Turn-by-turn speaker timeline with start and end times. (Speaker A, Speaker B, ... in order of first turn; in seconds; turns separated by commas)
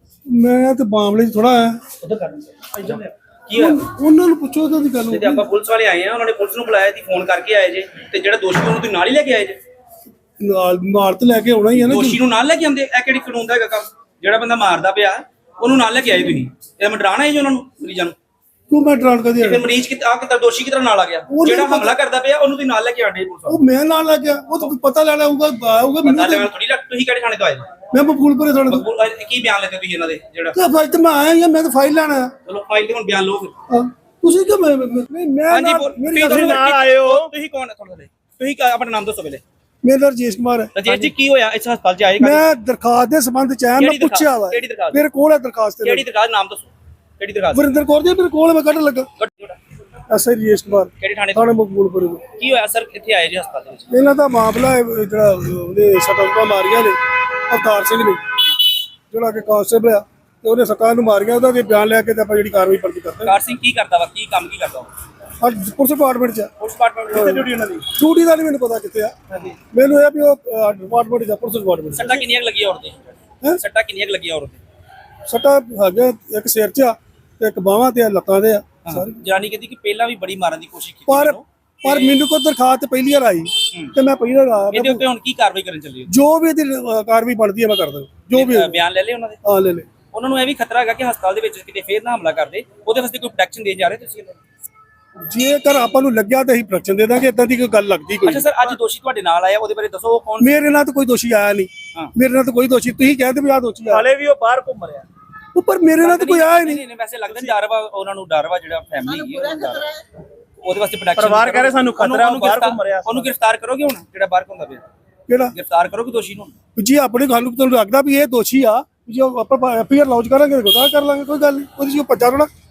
Speaker A: 0.3-1.8, Speaker B: 2.0-3.8, Speaker A: 3.5-5.5, Speaker B: 5.1-9.6, Speaker A: 10.4-12.2, Speaker B: 11.7-18.2, Speaker A: 18.7-19.6, Speaker B: 19.4-23.6, Speaker A: 21.3-22.0, Speaker A: 23.5-26.5, Speaker B: 26.0-27.7, Speaker A: 27.9-28.9, Speaker B: 28.7-30.6, Speaker A: 30.5-32.3, Speaker B: 32.5-33.5, Speaker A: 33.7-36.7, Speaker B: 35.5-39.4, Speaker C: 36.3-37.3, Speaker A: 39.8-41.1, Speaker B: 40.8-42.5, Speaker A: 42.2-46.1, Speaker B: 43.8-45.1, Speaker B: 45.8-47.7, Speaker A: 47.5-49.1, Speaker B: 49.2-49.6, Speaker A: 50.1-52.2, Speaker B: 51.0-51.5, Speaker B: 52.4-53.9, Speaker A: 53.9-57.0, Speaker A: 57.5-58.2, Speaker A: 59.1-63.4, Speaker B: 63.2-64.9, Speaker A: 65.4-66.5, Speaker B: 66.6-67.4, Speaker A: 67.1-69.2, Speaker C: 67.2-67.8, Speaker C: 69.3-69.6, Speaker A: 69.7-72.2, Speaker B: 71.9-74.6, Speaker A: 75.3-79.2, Speaker B: 78.8-82.2, Speaker A: 81.1-85.0, Speaker B: 84.7-86.1, Speaker A: 86.1-88.8, Speaker B: 88.3-89.4, Speaker A: 89.5-89.9, Speaker B: 90.1-94.4, Speaker A: 95.2-98.5, Speaker B: 98.2-100.6, Speaker A: 100.4-104.0, Speaker C: 103.9-105.1, Speaker A: 105.5-106.8, Speaker B: 106.0-110.0, Speaker B: 110.6-114.9, Speaker C: 111.2-113.3, Speaker A: 115.3-115.5, Speaker B: 115.5-116.5, Speaker A: 116.8-122.5